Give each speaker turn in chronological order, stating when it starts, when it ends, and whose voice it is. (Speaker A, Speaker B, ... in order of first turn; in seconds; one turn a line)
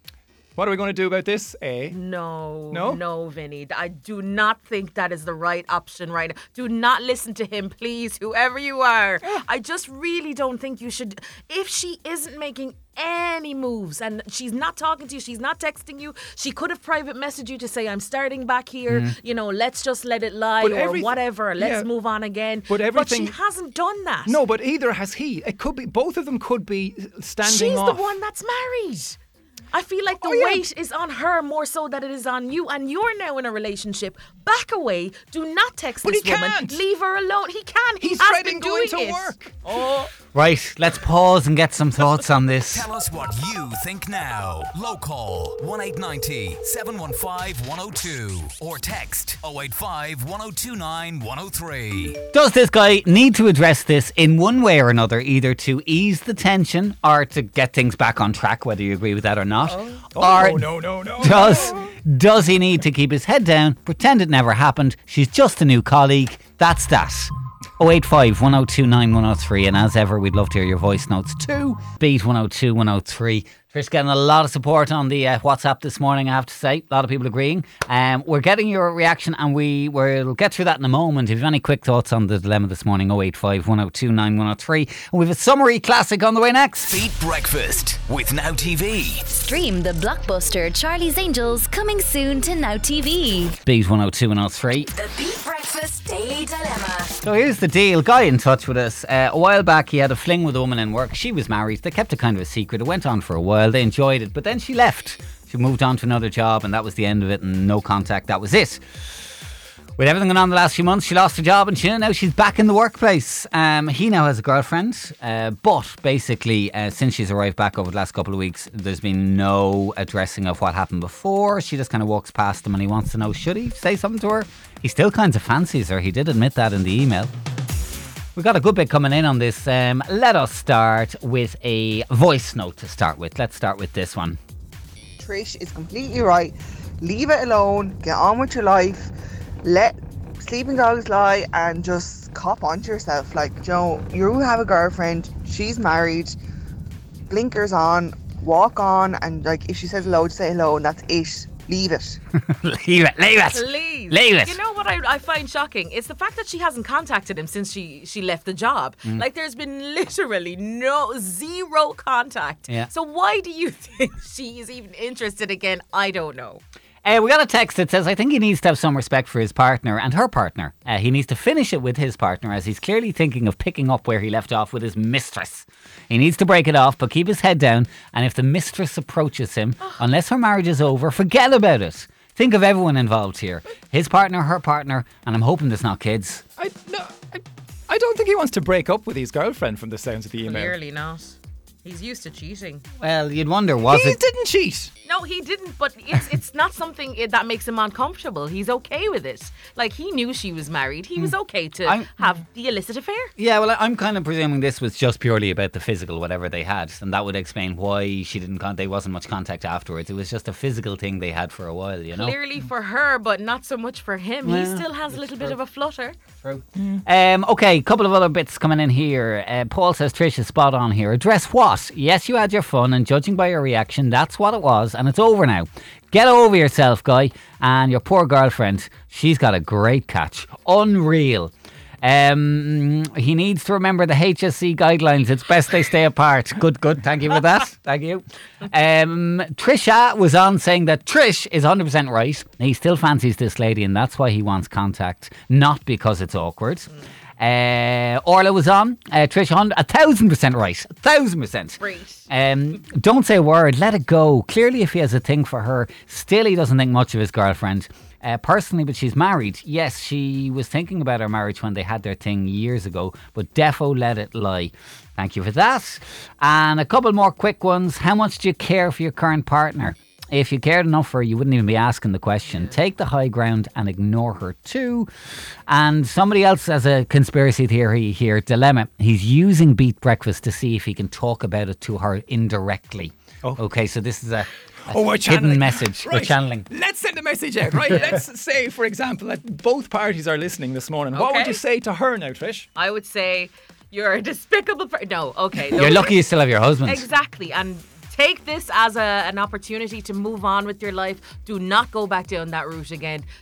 Speaker A: 0.6-2.0
Speaker B: 1.9-24.4
Speaker A: 2.7-3.0
Speaker C: 18.9-19.1
Speaker A: 20.6-21.9
Speaker A: 22.7-23.4
Speaker A: 24.2-28.2
Speaker B: 27.4-29.2
Speaker B: 29.7-40.1
Speaker A: 30.1-30.6
Speaker A: 36.0-36.8
Speaker A: 38.0-39.8
Speaker C: 40.3-42.9
Speaker D: 42.7-52.2
Speaker C: 52.2-87.1
Speaker B: 59.6-60.1
Speaker A: 60.1-61.9
Speaker D: 86.9-89.3
Speaker E: 89.3-93.5
Speaker C: 93.6-94.9
Speaker E: 94.9-97.1
Speaker C: 97.2-108.8
Speaker C: 110.0-127.3
Speaker C: 128.3-134.4
Speaker F: 135.2-139.1
Speaker F: 139.6-146.3
Speaker F: 147.3-152.2
Speaker C: 152.3-154.6
Speaker B: 153.5-166.6
Speaker C: 167.0-186.4
Speaker A: 186.6-190.8
Speaker B: 190.4-192.8
Speaker C: 193.0-194.2
Speaker A: 193.9-194.9
Speaker B: 195.0-203.3
Speaker C: 203.4-212.3
Speaker B: 212.1-216.2
Speaker C: 214.4-215.6
Speaker C: 216.4-275.1
Speaker B: 251.8-252.2
Speaker C: 275.7-286.6
Speaker A: 284.9-292.7
Speaker B: 287.9-288.1
Speaker B: 291.1-291.6
Speaker B: 292.7-296.2
Speaker C: 295.7-297.0
Speaker B: 296.8-303.3